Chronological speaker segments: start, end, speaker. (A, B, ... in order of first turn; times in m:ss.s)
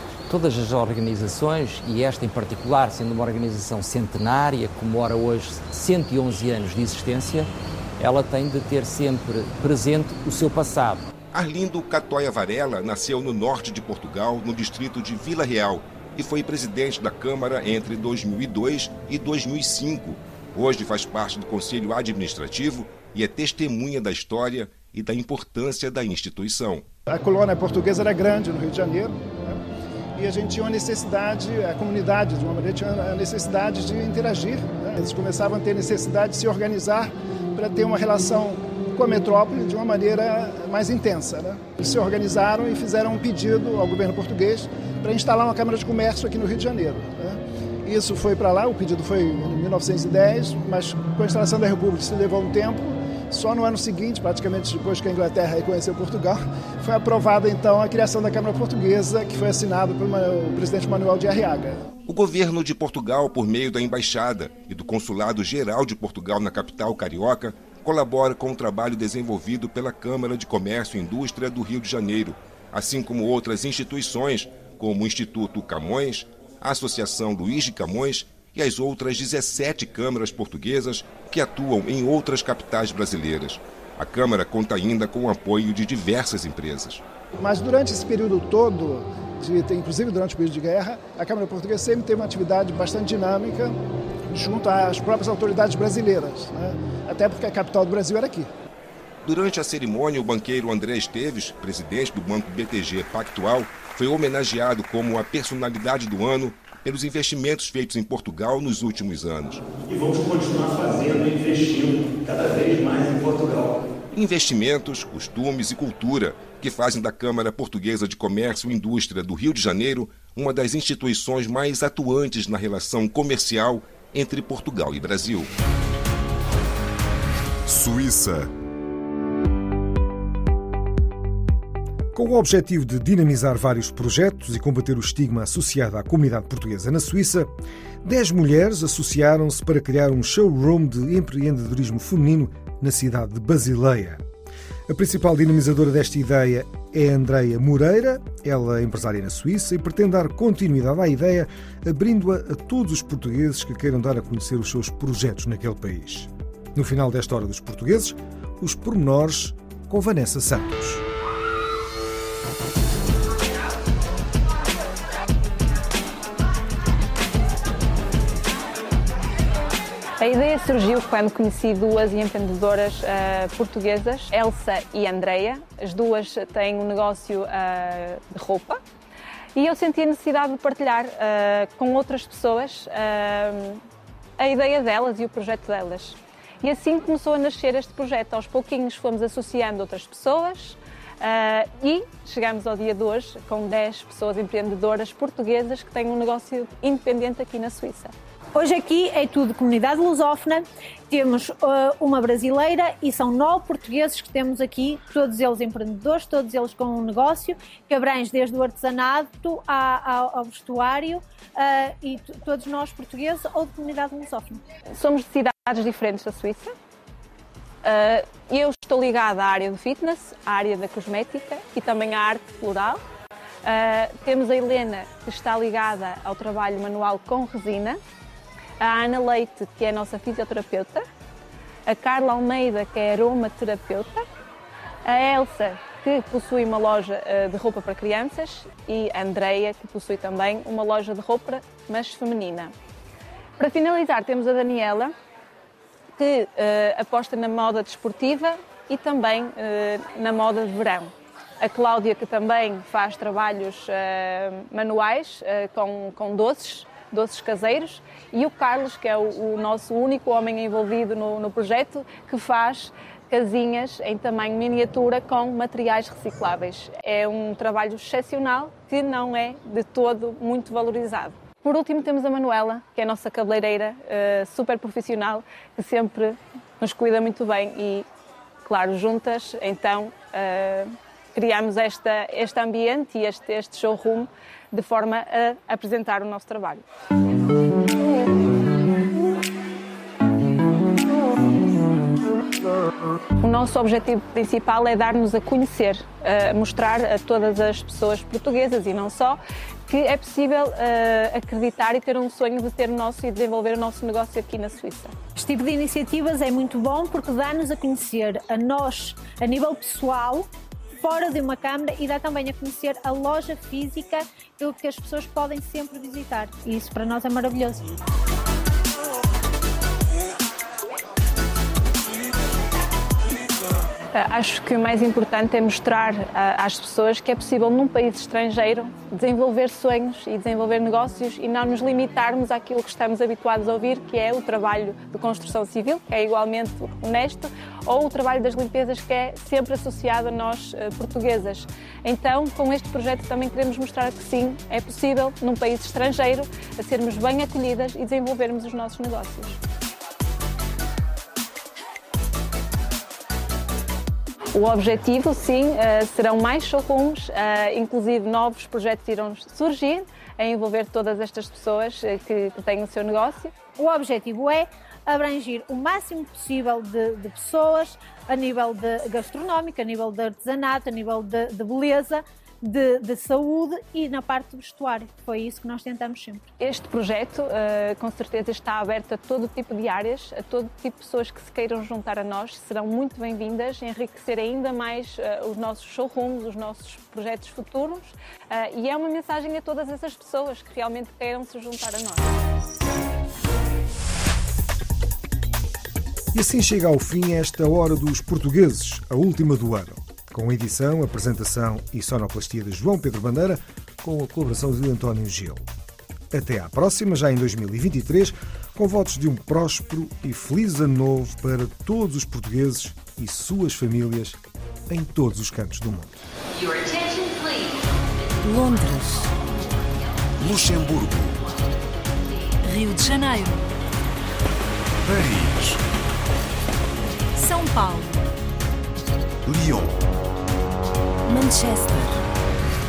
0:00.3-0:11.1 A
0:11.3-0:26.9 B
0:27.1-0:29.6 C
0:30.2-1:01.8 C
1:02.1-1:27.0 B
1:27.4-1:33.7 C
1:34.3-1:38.5 C
1:39.2-1:49.6 B
1:49.9-1:50.6 D
1:51.5-1:51.8 D
1:54.1-2:05.5 B
2:07.6-2:08.5 E
2:12.1-2:17.5 F
2:18.0-2:24.2 F
2:24.9-2:41.0 F
2:50.2-2:58.8 G
2:59.6-3:03.8 G
3:04.4-3:18.1 G
3:18.5-3:34.6 H
3:35.0-3:36.7 G
3:37.8-3:43.0 G
3:43.6-3:48.0 G
3:48.8-3:51.0 G
3:51.9-3:54.2 G
3:55.0-4:02.7 G
4:03.6-4:05.1 G
4:06.2-4:38.0 G
4:38.6-4:46.8 G
4:53.4-5:05.1 G
5:05.4-5:10.5 H
5:11.0-5:18.0 H
5:24.1-5:49.6 G
5:54.5-6:03.5 G
6:03.8-6:16.4 H
6:16.6-6:32.3 G
6:36.3-6:45.6 F
6:46.3-6:54.4 F
6:54.9-6:56.2 F
6:56.5-6:58.5 D
6:58.4-6:59.3 I
7:00.4-7:01.4 E
7:02.6-7:03.6 I
7:05.0-7:05.8 E
7:07.4-7:08.3 I
7:09.4-7:10.0 E
7:11.3-7:12.2 I